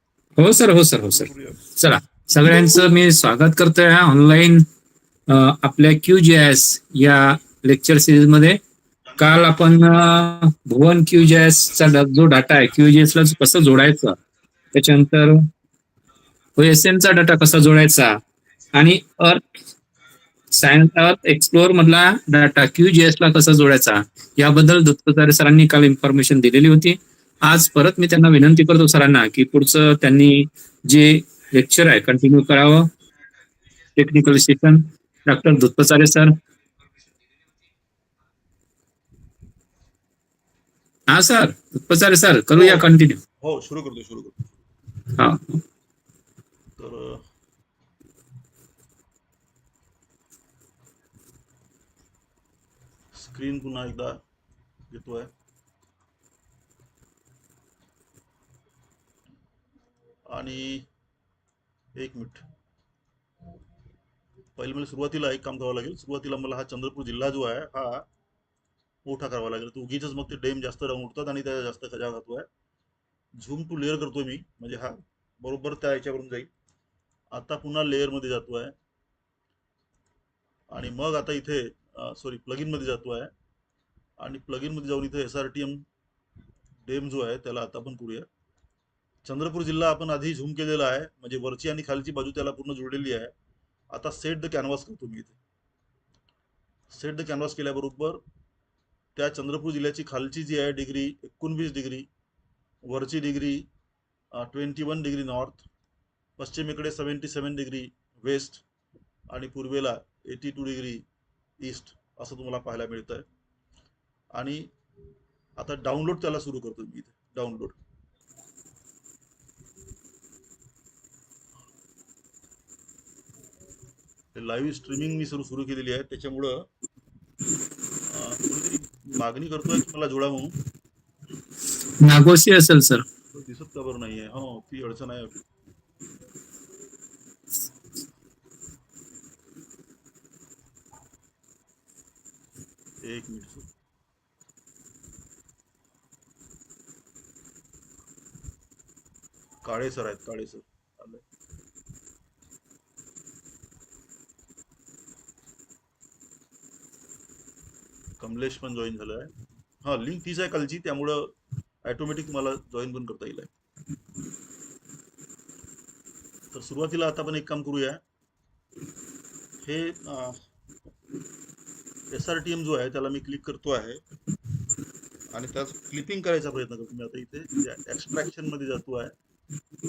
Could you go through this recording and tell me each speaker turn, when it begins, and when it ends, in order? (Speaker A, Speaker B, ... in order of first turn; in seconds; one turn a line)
Speaker A: 0.4-4.6
Speaker B: 1.1-1.6
Speaker A: 5.3-8.6
Speaker B: 9.1-9.6
Speaker A: 9.2-14.2
Speaker A: 14.7-15.5
Speaker A: 16.6-18.2
Speaker A: 18.7-19.4
Speaker A: 20.6-32.9
Speaker A: 34.0-36.3
Speaker A: 41.1-43.2
Speaker B: 42.5-42.9
Speaker B: 43.4-44.4
Speaker A: 45.2-45.6
Speaker B: 46.8-47.2
Speaker B: 53.1-54.2
Speaker B: 54.9-55.3
Speaker B: 60.3-60.9
Speaker B: 62.0-62.4
Speaker B: 64.6-68.1
Speaker B: 69.0-72.5
Speaker B: 73.4-76.5
Speaker B: 77.3-78.7
Speaker B: 80.7-83.3
Speaker B: 84.2-85.8
Speaker B: 86.9-88.3
Speaker B: 89.2-93.3
Speaker B: 93.9-95.4
Speaker B: 96.9-98.2
Speaker B: 99.2-102.1
Speaker B: 102.9-103.7
Speaker B: 104.4-105.7
Speaker B: 106.4-108.6
Speaker B: 109.3-111.0
Speaker B: 111.6-113.3
Speaker B: 114.3-114.7
Speaker B: 115.6-117.8
Speaker B: 124.4-126.5
Speaker B: 128.1-130.6
Speaker A: 132.0-133.1
Speaker B: 133.3-135.4
Speaker B: 143.0-143.7
Speaker B: 149.6-151.2
Speaker B: 158.2-161.3
Speaker B: 161.8-163.5
Speaker B: 166.5-168.0
Speaker B: 169.6-170.4
Speaker B: 172.1-174.0
Speaker B: 175.3-179.1